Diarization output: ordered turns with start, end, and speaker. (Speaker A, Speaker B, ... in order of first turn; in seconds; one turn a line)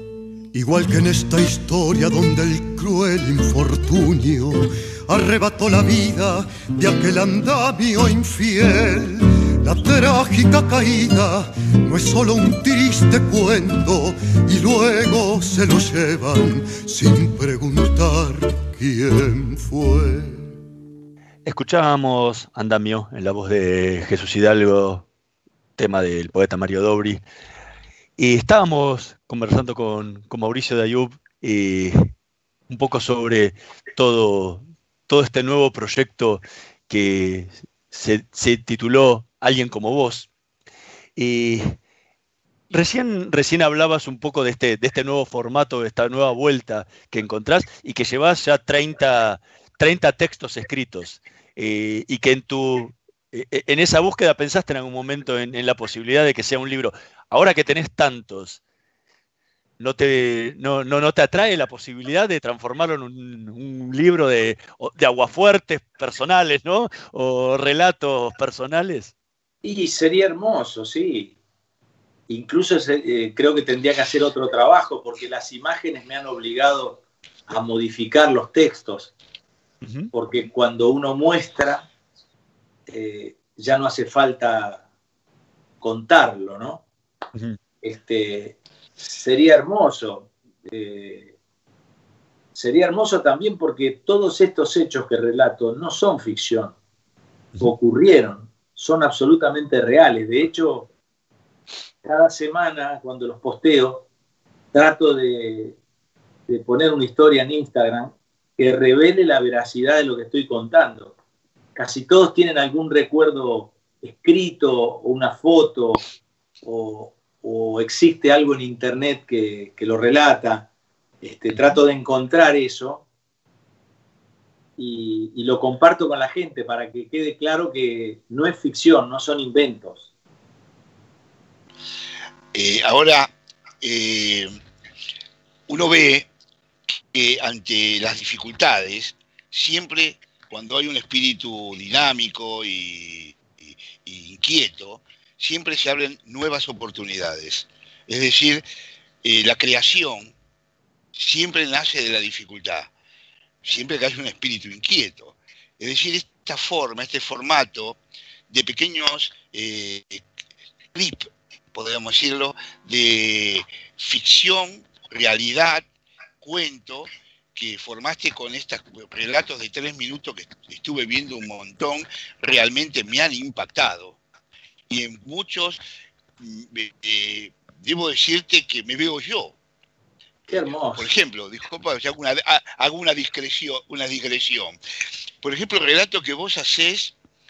Speaker A: 0.5-20.5
Speaker B: 21.4-25.1
Speaker B: 25.8-27.2
Speaker B: 28.2-32.1
Speaker B: 32.7-40.3
Speaker B: 41.2-41.8
Speaker B: 42.7-58.6
Speaker B: 59.8-69.1
Speaker C: 69.6-71.3
Speaker C: 72.3-79.1
Speaker B: 79.8-80.1
Speaker C: 80.1-81.9
Speaker C: 82.9-84.8
Speaker C: 85.8-86.8
Speaker C: 87.8-91.3
Speaker C: 92.5-96.7
Speaker C: 97.6-100.9
Speaker C: 102.0-104.0
Speaker C: 104.7-105.8
Speaker C: 106.5-111.1
Speaker C: 111.8-116.0
Speaker C: 116.6-120.7
Speaker C: 121.2-123.0
Speaker C: 124.8-130.0
Speaker D: 132.5-134.6
Speaker D: 135.7-136.3
Speaker D: 136.9-148.6
Speaker D: 149.2-150.3
Speaker D: 151.1-152.9
Speaker D: 153.6-158.0
Speaker D: 158.5-160.2
Speaker D: 160.9-165.8
Speaker D: 166.4-174.2
Speaker D: 174.9-175.8
Speaker D: 176.4-179.5
Speaker C: 180.5-181.1
Speaker D: 180.5-184.8
Speaker D: 185.4-187.2